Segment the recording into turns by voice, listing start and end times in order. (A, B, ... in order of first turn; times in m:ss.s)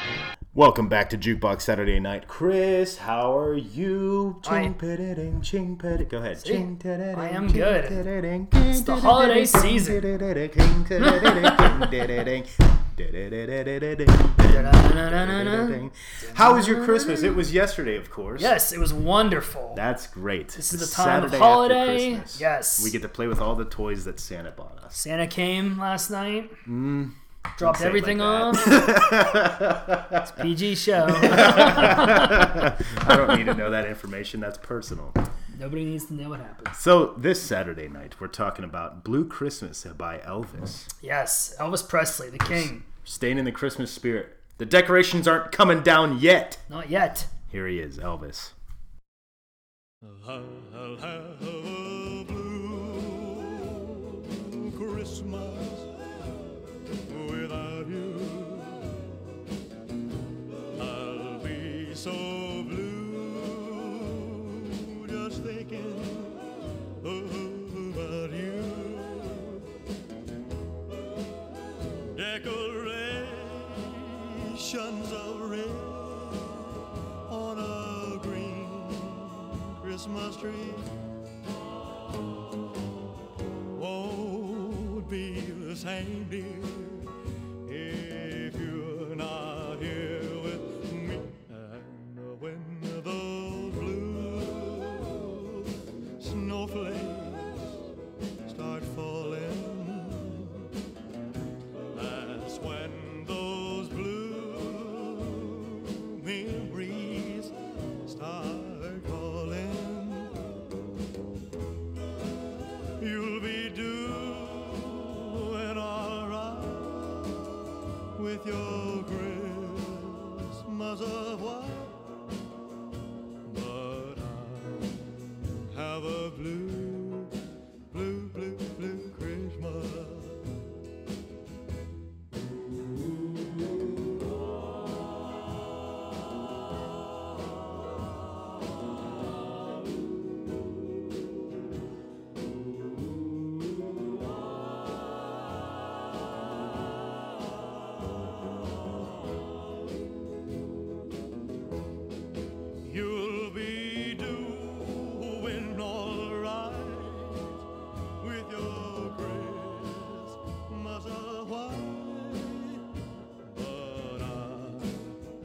0:00.5-0:18.6 A
0:04.4-0:04.7 B
0:06.4-0:08.0 B
0:08.6-0:10.0 B
0:11.0-0:12.1 B
0:14.4-0:17.4 B
0:18.4-0:19.8 B
0:19.8-0:25.0 A
0:20.6-0:23.0 B
0:24.9-0:26.6 B
0:26.7-0:30.3 A
0:27.6-0:29.0 B
0:30.2-0:32.5 B
0:30.9-0:35.2 A
0:35.5-0:36.8 B
0:36.7-0:40.9 A
0:41.0-0:42.9 B
0:42.4-0:46.6 A
0:46.7-0:47.3 B
0:47.5-0:48.5 A
0:50.0-0:55.9 C
0:56.9-0:59.0 C
1:00.7-1:06.5 C
1:07.0-1:09.7 C
1:12.1-1:20.9 C
1:23.7-1:37.8 C
1:38.4-1:40.7 C
1:41.9-1:50.6 C
1:53.0-1:57.6 C
1:58.2-2:02.0 C
2:03.4-2:07.4 C
2:07.9-2:10.5 C
2:32.8-2:37.6 C
2:38.2-2:42.8 C
2:43.5-2:45.1 C